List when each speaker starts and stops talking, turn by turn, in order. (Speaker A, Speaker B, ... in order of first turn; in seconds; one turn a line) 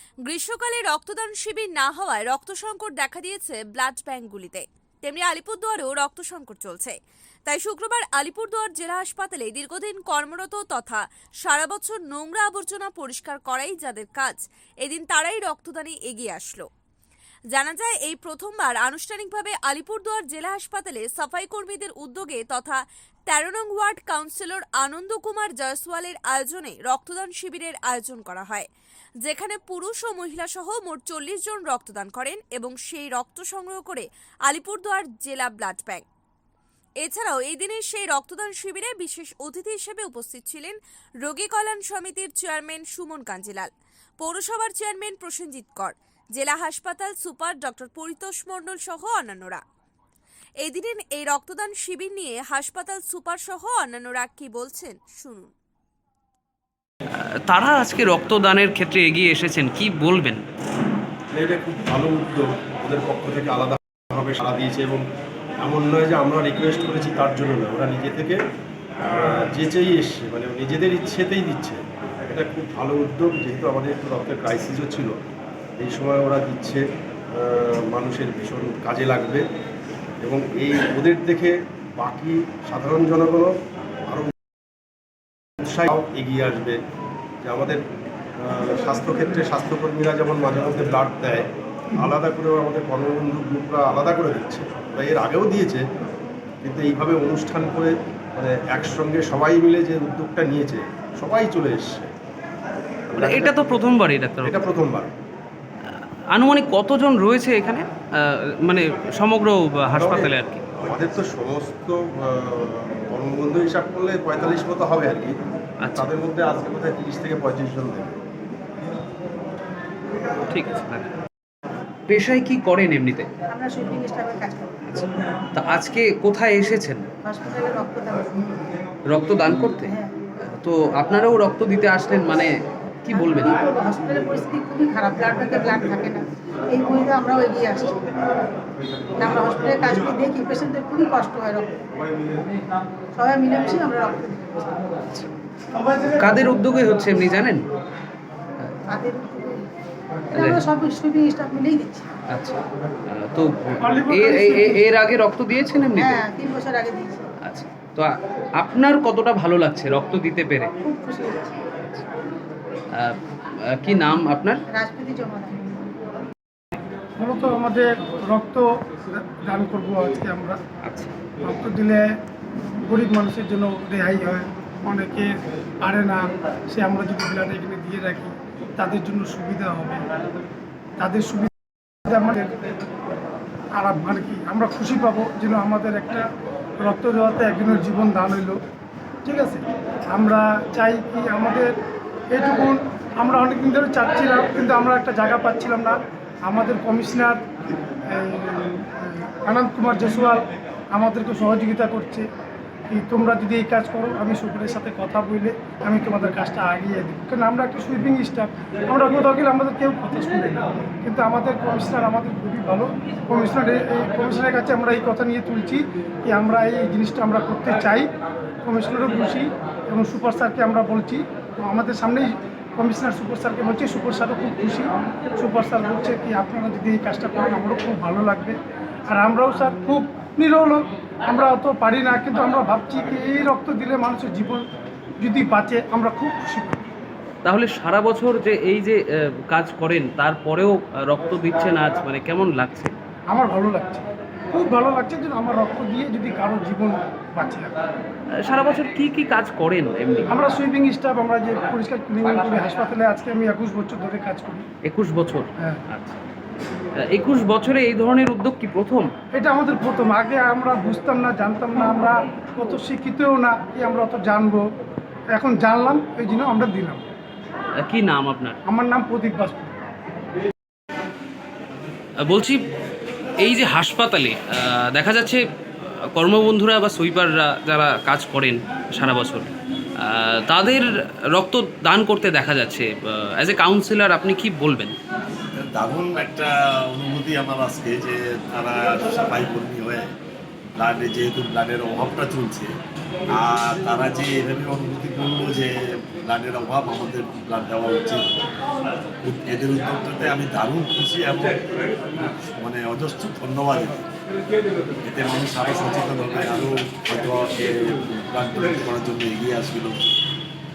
Speaker A: 0.2-16.7
Speaker A: 17.5-28.7
Speaker A: 29.2-36.0
Speaker A: 37.0-49.6
Speaker A: 50.6-55.5
Speaker B: 57.5-60.4
Speaker C: 61.3-65.0
Speaker C: 65.6-68.4
Speaker C: 69.0-75.1
Speaker C: 75.8-79.4
Speaker C: 80.2-83.5
Speaker C: 84.1-84.3
Speaker C: 85.6-86.8
Speaker C: 87.4-87.8
Speaker C: 88.4-95.8
Speaker C: 96.6-102.1
Speaker C: 103.1-103.8
Speaker B: 103.2-104.7
Speaker C: 104.4-105.1
Speaker B: 106.3-110.6
Speaker C: 109.9-118.1
Speaker B: 115.8-116.1
Speaker B: 120.5-121.1
Speaker B: 122.1-123.3
Speaker D: 123.5-124.8
Speaker B: 124.9-127.0
Speaker D: 127.2-128.3
Speaker B: 129.1-129.9
Speaker D: 129.8-130.1
Speaker B: 130.6-132.5
Speaker B: 133.0-133.6
Speaker D: 133.1-138.4
Speaker D: 139.1-141.8
Speaker D: 143.1-145.0
Speaker B: 146.2-147.6
Speaker D: 148.9-149.7
Speaker D: 150.3-152.1
Speaker B: 150.3-150.6
Speaker B: 152.3-156.2
Speaker E: 153.8-154.9
Speaker D: 155.9-157.3
Speaker B: 157.4-160.7
Speaker D: 160.8-161.6
Speaker B: 163.7-164.6
Speaker D: 164.7-165.9
Speaker E: 167.2-170.6
Speaker B: 170.8-171.1
Speaker E: 171.4-172.1
Speaker E: 172.8-180.0
Speaker E: 181.0-181.5
Speaker E: 182.1-182.6
Speaker E: 183.8-186.2
Speaker E: 186.8-188.6
Speaker E: 189.2-191.7
Speaker E: 192.3-202.2
Speaker E: 202.9-218.1
Speaker E: 218.6-228.6
Speaker E: 229.1-234.6
Speaker E: 235.2-236.8
Speaker B: 237.4-242.9
Speaker E: 243.3-247.7
Speaker B: 248.4-250.3
Speaker E: 250.3-254.7
Speaker B: 254.8-256.2
Speaker B: 257.1-259.1
Speaker E: 259.3-264.6
Speaker E: 265.3-267.0
Speaker B: 267.8-268.6
Speaker E: 268.6-269.7
Speaker B: 272.2-272.6
Speaker B: 273.4-284.9
Speaker F: 285.5-290.1
Speaker F: 290.8-292.7
Speaker F: 293.3-298.2
Speaker F: 299.2-304.0
Speaker F: 305.0-310.2